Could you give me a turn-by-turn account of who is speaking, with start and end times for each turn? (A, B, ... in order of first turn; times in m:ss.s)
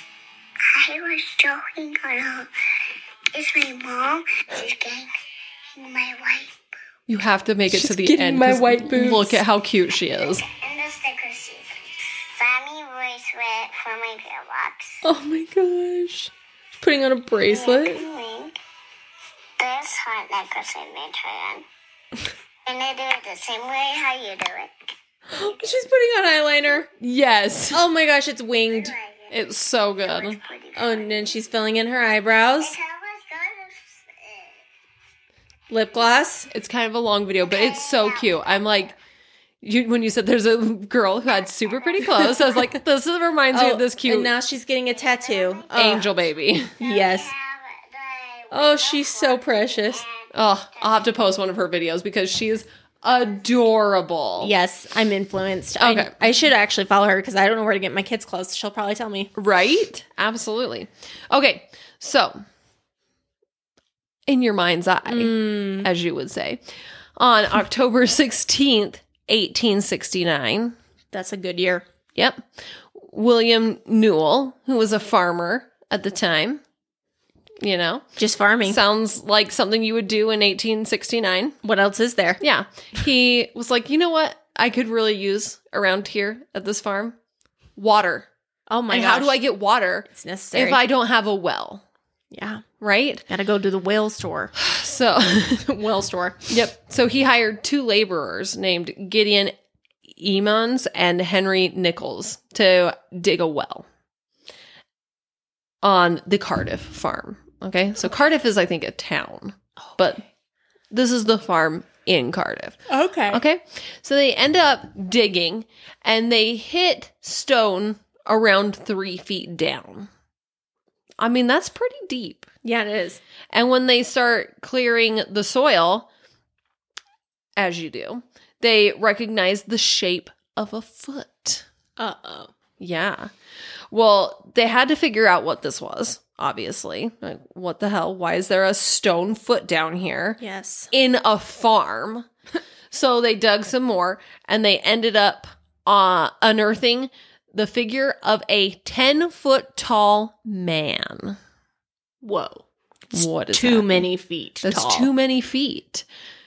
0:00.7-0:02.5 A
0:03.3-0:05.1 A
0:05.7-0:06.6 A
0:07.1-0:10.4 B
0:07.7-0:09.4 C
0:10.0-0:15.0 A
0:15.0-0:18.0 C
0:17.5-0:18.6 A
0:19.6-0:21.6 A
0:22.6-0:25.7 A
0:25.3-0:26.9 C
0:27.0-0:27.8 B
0:27.7-0:28.9 C
0:28.6-0:29.4 A
0:29.3-0:30.4 B
0:30.0-0:31.4 A
0:30.8-0:32.8 C
0:32.6-0:34.6 A
0:35.7-0:36.5 C
0:36.5-0:39.0 B
0:37.4-0:38.8 A
0:39.6-0:44.3 B
0:41.3-0:42.7 A
0:43.5-0:46.1 C
0:44.9-0:46.1 A
0:45.7-0:46.7 B
0:46.8-0:51.1 A
0:46.8-0:47.3 C
0:48.5-0:50.0 C
0:50.3-0:54.5 B
0:54.4-0:59.3 C
0:55.8-0:56.1 B
0:59.3-1:02.4 B
1:04.3-1:06.6 B
1:05.1-1:05.9 C
1:07.2-1:10.8 B
1:11.1-1:11.8 C
1:12.1-1:16.6 B
1:17.6-1:18.0 B
1:18.2-1:18.8 C
1:18.6-1:21.6 B
1:21.6-1:22.4 C
1:22.4-1:27.2 B
1:27.8-1:28.3 B
1:28.7-1:29.4 C
1:28.9-1:31.8 B
1:30.1-1:30.8 C
1:32.3-1:32.6 C
1:32.8-1:33.2 B
1:33.3-1:34.5 C
1:34.6-1:35.6 B
1:35.6-1:36.6 C
1:36.5-1:39.5 B
1:40.0-1:43.8 B
1:45.8-1:50.2 B
1:50.9-2:00.1 B
1:52.9-1:53.4 C
2:01.2-2:02.5 B
2:02.6-2:03.2 C
2:03.5-2:06.1 B
2:07.6-2:11.6 B
2:12.0-2:12.5 C
2:12.8-2:13.3 B
2:13.9-2:20.4 B
2:20.4-2:20.9 C
2:20.9-2:22.3 B
2:22.9-2:31.4 B
2:32.2-2:32.6 C
2:33.1-2:34.1 B
2:33.5-2:35.1 C
2:34.6-2:36.0 B